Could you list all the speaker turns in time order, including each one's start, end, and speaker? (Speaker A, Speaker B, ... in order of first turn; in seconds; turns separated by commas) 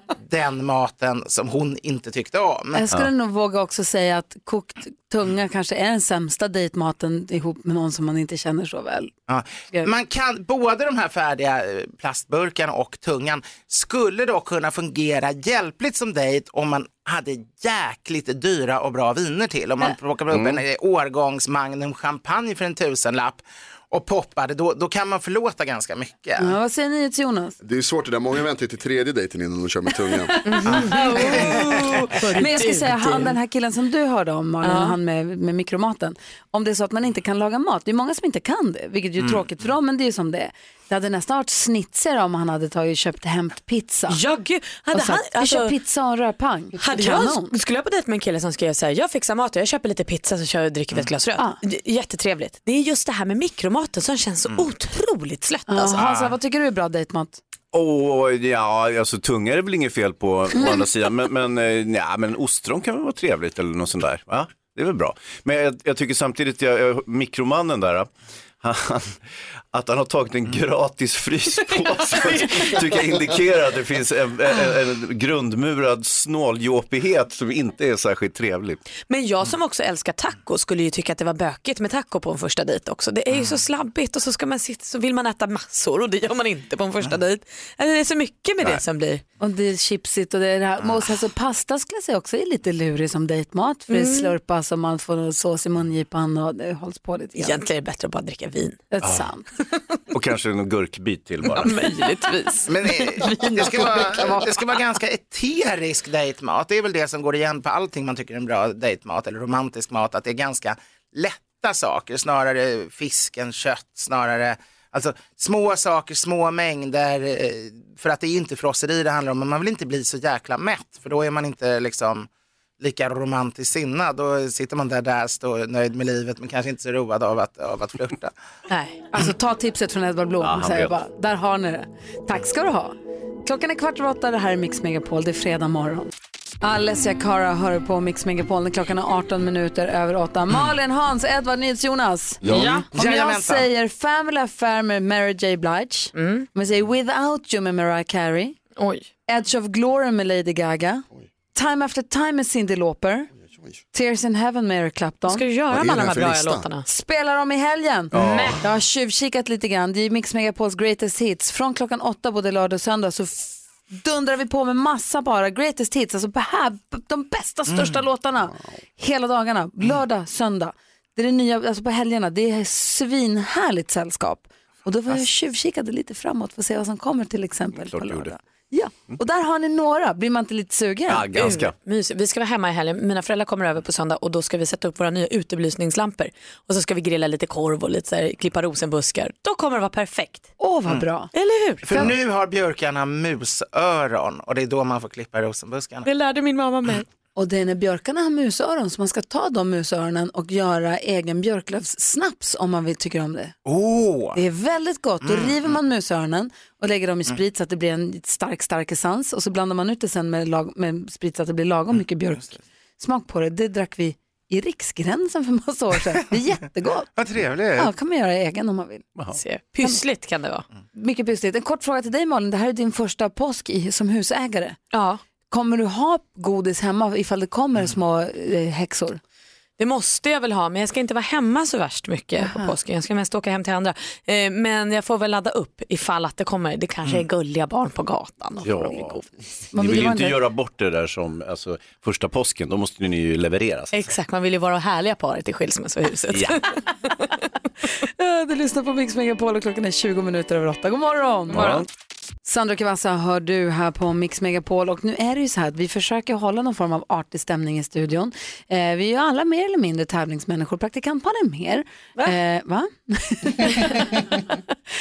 Speaker A: 0.2-2.8, Speaker B: 2.7-9.1, Speaker A: 9.3-26.6, Speaker C: 20.3-20.6, Speaker B: 26.4-27.6, Speaker D: 27.6-30.3, Speaker B: 30.2-44.2, Speaker E: 30.5-33.3, Speaker A: 30.7-31.7, Speaker E: 34.6-35.0, Speaker E: 44.1-45.7, Speaker B: 44.9-47.5, Speaker E: 46.8-56.0, Speaker B: 55.7-57.4, Speaker A: 56.0-56.3, Speaker C: 57.7-68.1, Speaker C: 68.6-69.2, Speaker C: 69.7-78.8, Speaker E: 72.0-72.8, Speaker E: 79.1-89.2, Speaker A: 83.3-83.6, Speaker B: 89.4-97.6, Speaker E: 93.9-94.3, Speaker E: 97.4-98.8, Speaker B: 98.9-99.5, Speaker C: 99.0-99.3, Speaker C: 100.1-101.8, Speaker E: 101.5-102.7, Speaker A: 102.7-122.3, Speaker B: 102.9-104.5, Speaker A: 122.8-128.3, Speaker B: 129.0-136.1, Speaker C: 130.4-130.9, Speaker B: 136.6-148.6, Speaker D: 142.4-142.8, Speaker A: 142.9-143.7, Speaker E: 146.1-146.4, Speaker E: 148.8-149.1, Speaker B: 149.3-153.3, Speaker D: 153.5-153.7, Speaker B: 153.9-155.4, Speaker E: 155.3-156.8, Speaker D: 155.7-156.7, Speaker B: 156.9-181.3, Speaker C: 158.1-158.6, Speaker E: 158.1-158.6, Speaker C: 177.8-178.3, Speaker C: 181.1-181.7, Speaker E: 181.3-190.5, Speaker B: 190.6-191.3, Speaker E: 191.3-192.1, Speaker A: 191.9-196.1, Speaker E: 196.0-197.1, Speaker B: 197.3-203.5, Speaker A: 203.7-204.4, Speaker B: 204.3-217.1, Speaker A: 205.2-205.8, Speaker A: 211.9-212.6, Speaker A: 217.2-217.9, Speaker B: 217.8-219.1, Speaker E: 219.3-220.6, Speaker B: 220.9-224.8, Speaker E: 224.9-225.2, Speaker B: 225.5-229.2, Speaker E: 229.8-239.5, Speaker B: 232.4-232.7, Speaker C: 238.6-239.2, Speaker B: 239.7-240.3, Speaker C: 239.7-244.0, Speaker E: 243.9-247.3, Speaker B: 248.0-251.8, Speaker C: 251.5-251.9, Speaker E: 251.5-251.8, Speaker B: 252.4-264.6